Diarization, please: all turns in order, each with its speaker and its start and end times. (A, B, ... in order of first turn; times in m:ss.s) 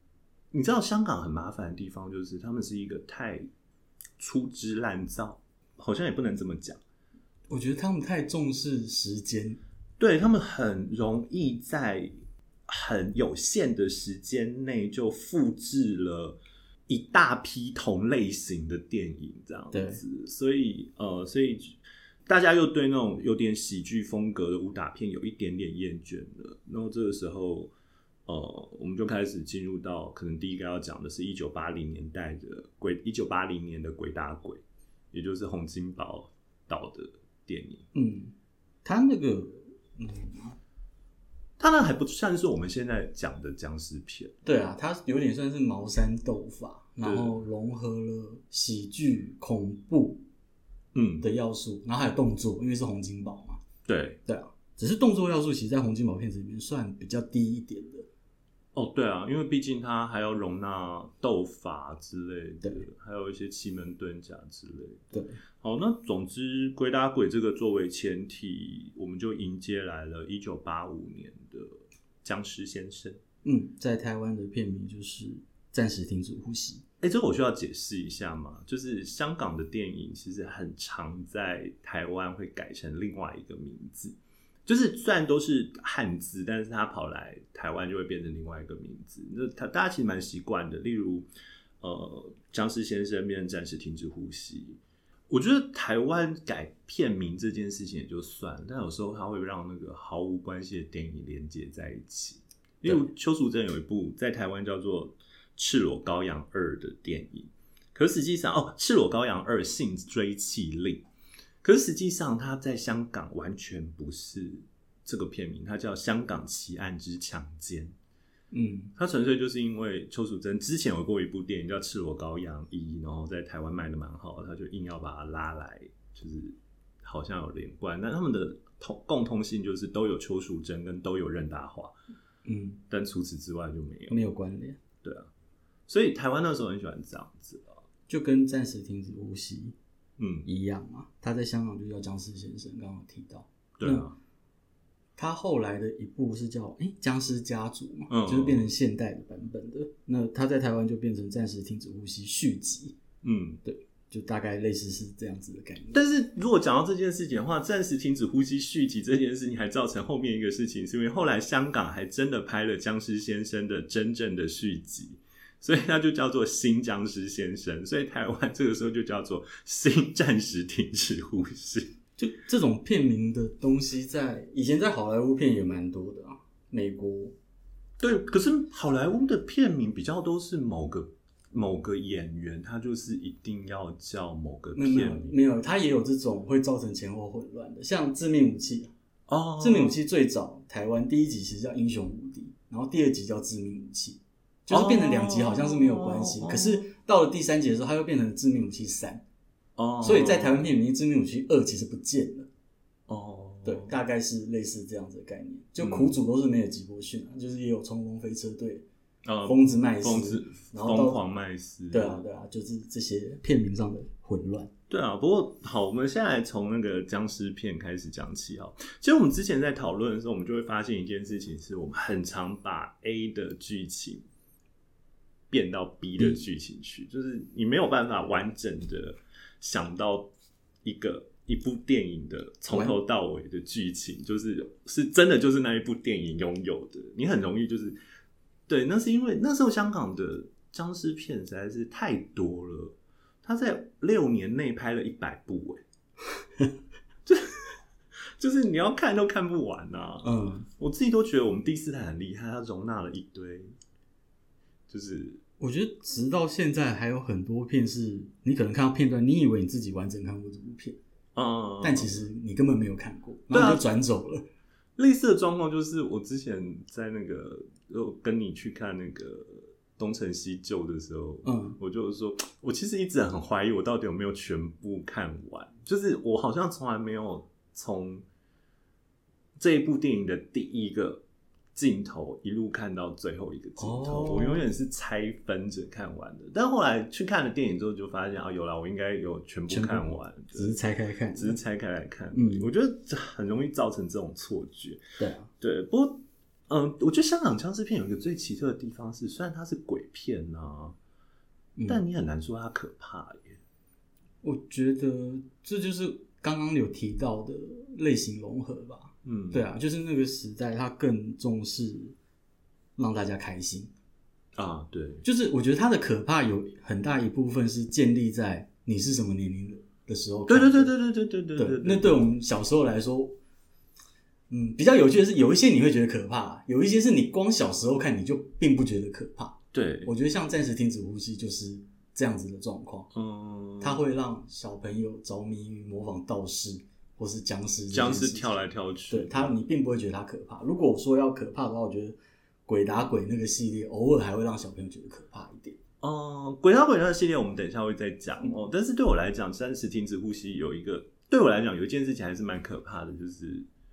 0:00.5-0:03.5 A
0:04.2-0:06.8 A
0:07.5-0:09.6 B
0:10.0-0:12.1 A
0:12.7-0:27.7 A
0:19.7-0:20.0 B
0:28.3-0:37.9 A
0:37.9-0:40.6 B
0:41.6-0:44.4 A
0:44.4-0:50.2 B
0:47.0-0:47.3 A
0:50.9-0:51.3 A
0:51.2-0:53.6 B
0:53.9-0:54.2 A
0:54.3-0:58.1 B
0:58.7-1:11.7 A
1:12.2-1:13.2 A
1:13.4-1:16.8 B
1:17.0-1:31.3 A
1:31.8-1:34.8 A
1:35.3-1:51.0 A
1:51.6-1:57.9 A
1:58.5-1:58.9 B
1:59.0-2:11.9 A
2:12.4-2:12.8 B
2:12.9-2:14.2 A
2:14.1-2:14.8 B
2:15.0-2:15.3 A
2:15.9-2:17.8 A
2:18.1-2:19.8 B
2:20.2-2:20.5 A
2:20.4-2:24.1 B
2:23.8-2:24.2 A
2:25.2-2:33.0 B
2:28.1-2:28.7 A
2:33.2-2:33.6 A
2:33.6-2:36.0 B
2:35.9-2:51.9 A
2:52.2-2:57.4 B
2:58.0-3:05.3 A
3:04.8-3:08.9 B
3:09.3-3:10.0 A
3:09.6-3:19.2 B
3:14.7-3:16.9 A
3:19.8-3:20.7 A
3:20.0-3:22.5 B
3:23.1-3:24.0 A
3:23.6-3:28.9 B
3:25.8-3:26.2 A
3:29.2-3:32.2 A
3:29.4-3:31.2 B
3:31.9-3:34.7 B
3:34.9-3:44.2 A
3:45.5-3:50.3 A
3:50.8-3:58.0 A
3:52.7-3:53.0 B
3:58.7-4:05.8 A
4:07.3-4:07.8 A
4:08.4-4:13.7 A
4:10.2-4:10.7 B
4:14.9-4:15.4 A
4:15.6-4:21.0 B
4:21.4-4:22.2 A
4:21.8-4:24.4 B
4:23.5-4:23.8 A
4:25.0-4:38.2 A
4:31.4-4:31.8 B
4:39.6-4:41.2 A
4:41.8-4:50.8 A
4:43.8-4:44.7 B
4:49.7-4:51.6 B
4:51.4-4:55.0 A
4:52.3-4:52.7 B
4:55.2-4:55.5 B
4:55.6-5:01.0 A
5:01.8-5:02.0 B
5:01.9-5:03.6 A
5:04.4-5:12.2 B
5:09.2-5:09.7 A
5:13.0-5:13.9 B
5:14.6-5:15.2 A
5:15.2-5:20.9 B
5:20.5-5:22.2 A
5:21.6-5:23.4 B
5:24.5-5:33.1 B
5:29.7-5:30.1 A
5:33.1-5:34.0 A
5:33.8-5:38.5 B
5:37.9-5:39.5 A
5:39.1-5:45.8 B
5:46.0-5:53.7 A